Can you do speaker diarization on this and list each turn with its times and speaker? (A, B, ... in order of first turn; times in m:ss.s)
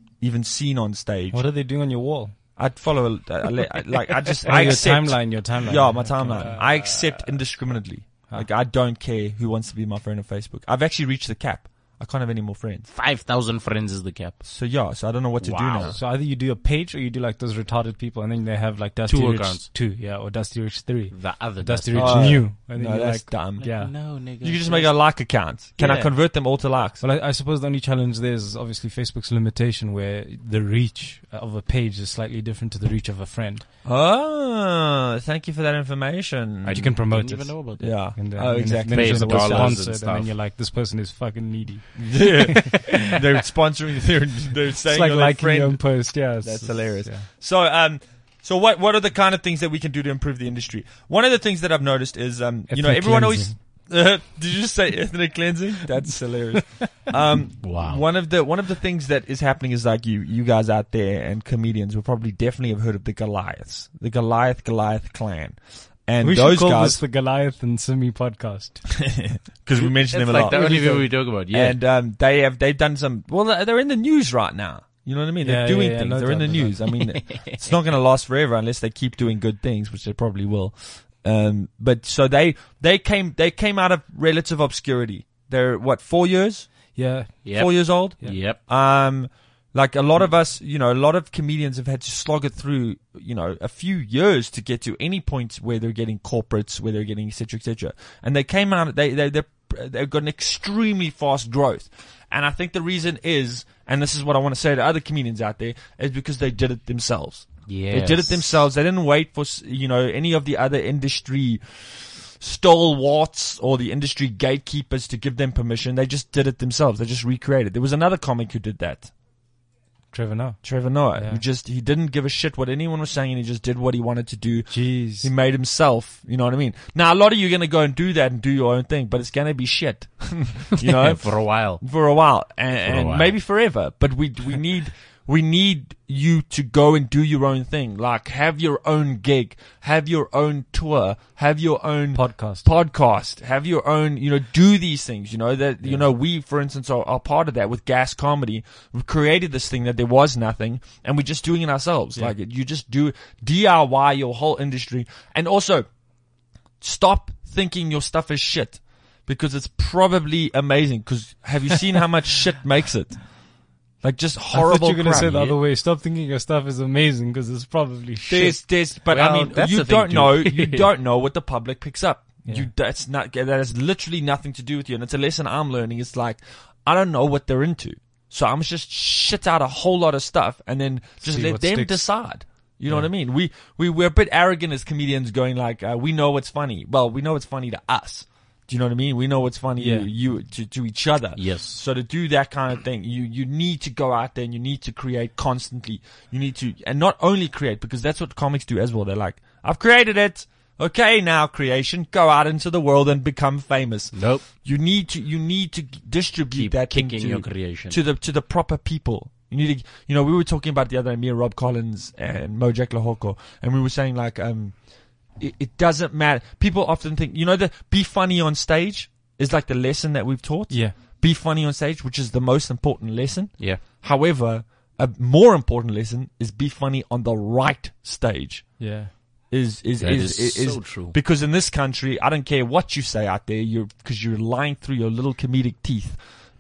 0:00.2-0:01.4 A
0:01.3-0:02.3 B
0:02.6-0:12.9 A
0:04.5-0:06.6 B
0:06.4-0:07.2 C
0:12.9-0:14.4 C
0:14.4-0:16.0 A
0:15.4-0:16.0 C
0:15.9-0:23.9 B
0:19.1-0:19.7 C
0:21.1-0:22.5 C
0:21.9-0:23.7 A
0:23.6-0:25.0 C
0:24.4-0:27.0 A
0:25.8-0:26.1 C
0:27.0-0:33.6 B
0:33.8-0:36.9 A
0:36.6-0:38.0 C
0:36.7-0:43.1 B
0:37.8-0:39.8 A
0:38.9-0:40.3 C
0:42.0-1:07.0 A
0:44.8-0:47.3 B
0:52.7-0:53.6 B
0:57.6-0:58.0 C
1:06.2-1:08.9 B
1:09.0-1:59.1 A
1:09.8-1:11.8 C
1:10.5-1:11.0 B
1:15.4-1:16.9 B
1:17.0-1:17.6 C
1:26.9-1:27.4 B
1:27.4-1:28.6 C
1:47.7-1:48.4 C
2:00.1-2:01.4 B
2:00.6-2:35.9 A
2:04.7-2:05.3 B
2:10.8-2:11.8 C
2:12.8-2:13.3 C
2:22.1-2:22.7 B
2:36.8-2:43.3 A
2:44.0-2:45.6 A
2:44.5-2:48.6 B
2:48.3-3:34.8 A
2:49.1-2:50.9 C
2:52.4-2:52.7 B
3:01.2-3:02.0 B
3:09.8-3:10.1 B
3:11.4-3:11.8 C
3:24.1-3:24.4 C
3:26.5-3:28.0 C
3:35.4-3:56.2 A
3:40.7-3:41.0 B
3:48.8-3:49.1 B
3:50.0-3:51.2 C